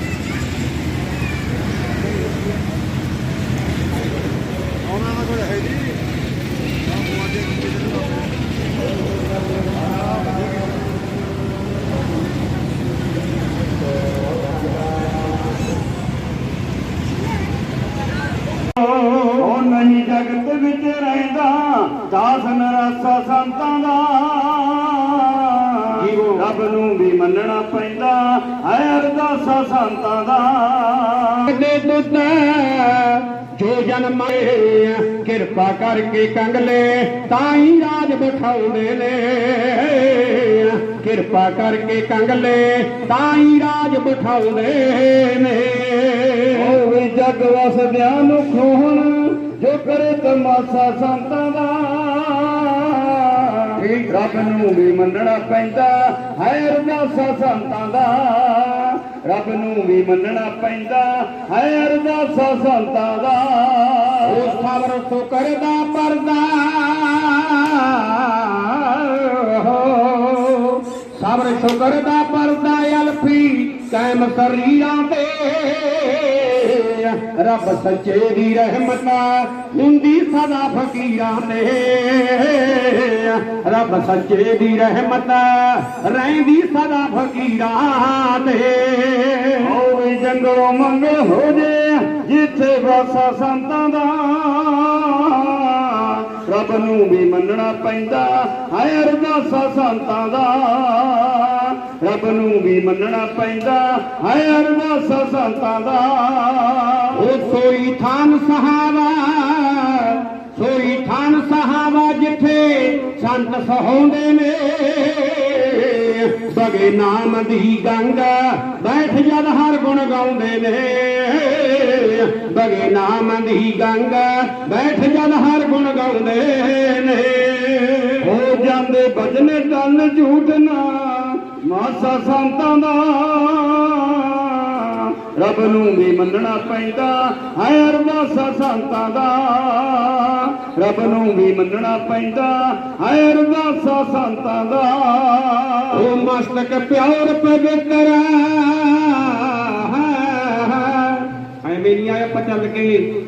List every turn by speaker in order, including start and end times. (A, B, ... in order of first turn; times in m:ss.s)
0:18.8-0:19.4 A
0:19.4-0:31.4 B
0:26.0-0:26.4 A
0:31.5-0:46.6 A
0:46.6-1:04.2 B
0:53.8-0:54.1 A
1:04.3-1:29.7 A
1:29.6-1:47.1 B
1:47.2-2:08.3 A
2:08.2-2:25.9 B
2:25.9-2:33.1 A